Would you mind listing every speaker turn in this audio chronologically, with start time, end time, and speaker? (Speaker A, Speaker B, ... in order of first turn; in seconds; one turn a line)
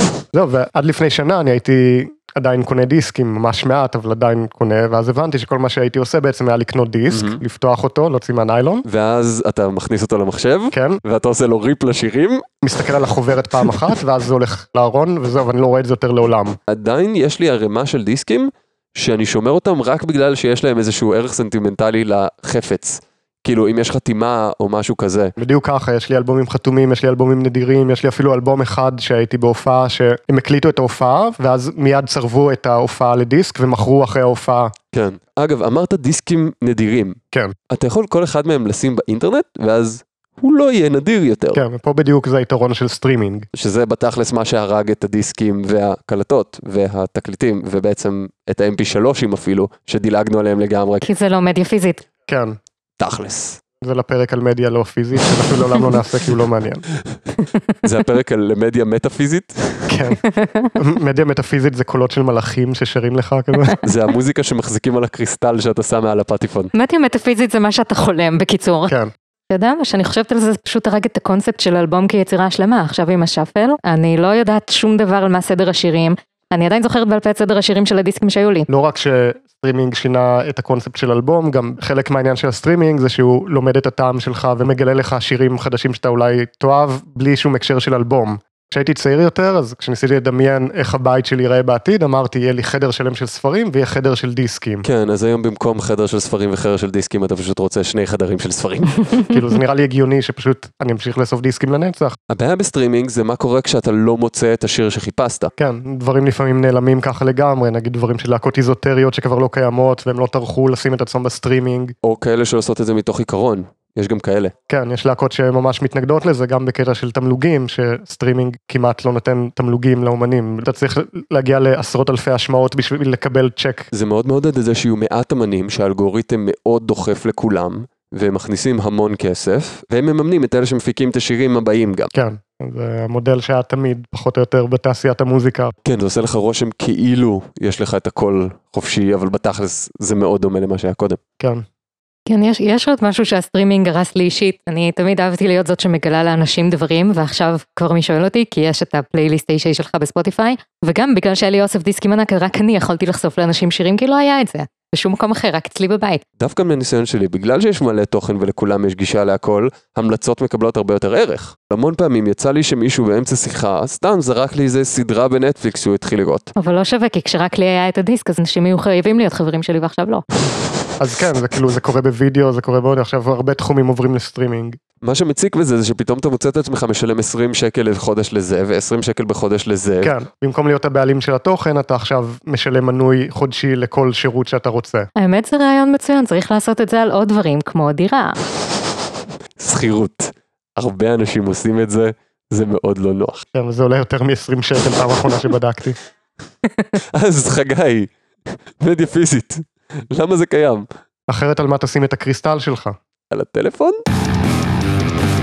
Speaker A: 0.3-8.8
Speaker B: 7.1-7.4
Speaker B: 8.8-12.5
Speaker A: 10.7-11.0
Speaker A: 12.6-16.6
Speaker B: 16.7-25.3
Speaker A: 25.4-34.7
Speaker B: 34.9-37.2
Speaker B: 37.7-41.6
Speaker A: 41.5-43.5
Speaker B: 43.5-51.0
Speaker C: 51.0-52.0
Speaker A: 52.3-52.6
Speaker B: 53.0-53.6
Speaker A: 53.8-56.8
Speaker B: 57.8-60.0
Speaker A: 59.9-60.2
Speaker C: 60.3-60.7
Speaker A: 60.8-63.7
Speaker B: 63.8-66.7
Speaker C: 66.7-68.9
Speaker A: 68.9-69.1
Speaker C: 69.5-78.7
Speaker A: 78.7-94.8
Speaker B: 94.8-99.2
Speaker A: 99.3-102.2
Speaker B: 102.3-105.5
Speaker A: 105.6-111.9
Speaker B: 112.0-114.5
Speaker A: 114.7-123.9
Speaker B: 123.9-132.1
Speaker A: 132.1-135.7
Speaker B: 135.8-141.2
Speaker A: 141.4-141.6
Speaker C: 142.2-156.2
Speaker B: 156.4-166.5
Speaker C: 166.6-170.2
Speaker A: 171.0-174.8
Speaker B: 175.0-180.1
Speaker A: 180.0-185.1
Speaker C: 185.2-188.4
Speaker B: 189.6-193.4
Speaker A: 193.5-196.0
Speaker B: 197.0-198.1
Speaker B: 198.8-200.8
Speaker A: 201.3-203.0
Speaker B: 203.3-204.0